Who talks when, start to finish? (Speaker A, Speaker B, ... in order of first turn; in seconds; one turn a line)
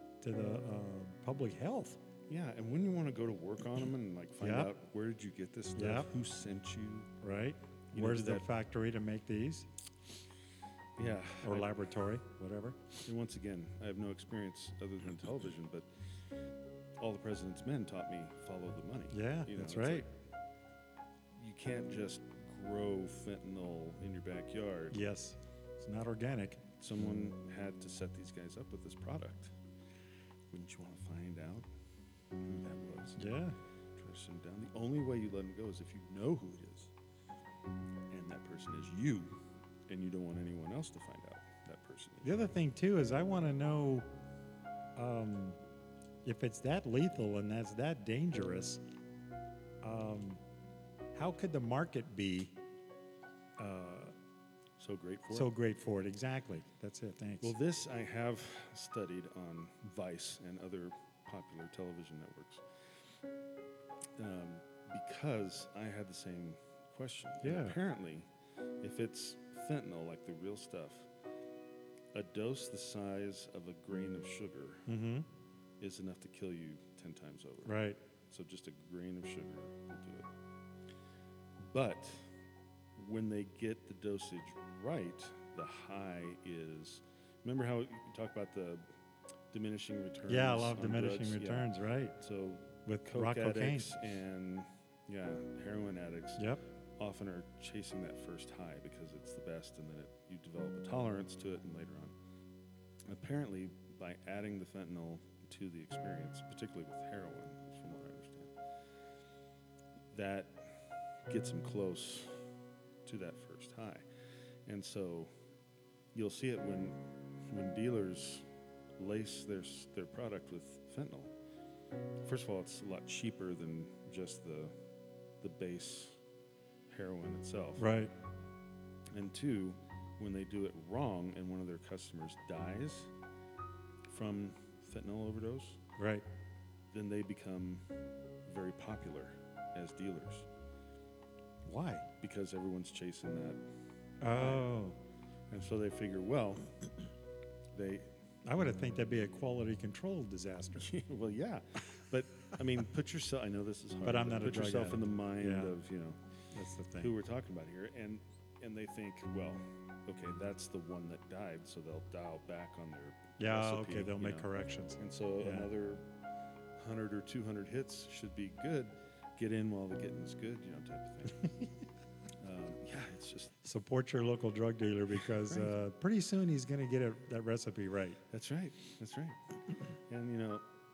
Speaker A: 0.2-2.0
Speaker B: 2.3-7.1
Speaker A: 4.4-4.7
Speaker A: 5.8-6.1
Speaker A: 7.2-9.7
Speaker B: 7.9-8.4
Speaker B: 11.0-11.7
Speaker A: 11.4-12.8
Speaker B: 13.0-15.9
Speaker B: 17.0-20.1
Speaker A: 19.1-20.1
Speaker B: 21.3-25.0
Speaker A: 24.9-26.6
Speaker B: 26.8-29.6
Speaker B: 30.5-31.7
Speaker B: 32.4-33.2
Speaker A: 33.2-33.5
Speaker B: 34.0-36.9
Speaker B: 38.1-42.4
Speaker A: 42.2-44.1
Speaker A: 45.0-45.6
Speaker A: 46.2-48.8
Speaker A: 49.8-50.4
Speaker A: 51.1-52.6
Speaker A: 53.6-54.1
Speaker B: 54.8-55.5
Speaker A: 55.3-57.5
Speaker B: 57.4-62.6
Speaker B: 64.2-68.3
Speaker A: 67.4-67.8
Speaker B: 68.8-71.1
Speaker B: 72.1-74.9
Speaker A: 74.9-75.3
Speaker B: 75.8-80.3
Speaker A: 77.6-78.0
Speaker B: 81.6-82.3
Speaker B: 83.0-88.8
Speaker B: 89.5-102.1
Speaker A: 90.3-92.2
Speaker A: 92.8-93.9
Speaker B: 103.0-108.5
Speaker B: 110.1-112.4
Speaker B: 113.0-114.0
Speaker B: 114.7-115.3
Speaker B: 116.1-118.5
Speaker B: 119.0-121.3
Speaker B: 122.2-124.7
Speaker B: 125.4-126.2
Speaker B: 126.9-127.9
Speaker A: 127.8-128.1
Speaker B: 129.1-133.1
Speaker B: 134.1-135.8
Speaker A: 136.0-136.2
Speaker B: 136.9-137.8
Speaker B: 138.4-140.5
Speaker A: 141.6-142.1
Speaker B: 142.2-143.6
Speaker A: 144.2-145.0
Speaker B: 144.3-144.7
Speaker B: 145.5-146.7
Speaker B: 147.7-148.1
Speaker A: 148.4-150.9
Speaker B: 150.8-156.2
Speaker A: 154.0-155.8
Speaker A: 156.5-157.1
Speaker B: 157.0-166.0
Speaker A: 163.4-165.7
Speaker B: 166.8-171.5
Speaker B: 172.4-173.5
Speaker A: 173.6-178.2
Speaker B: 178.3-179.4
Speaker B: 180.1-180.6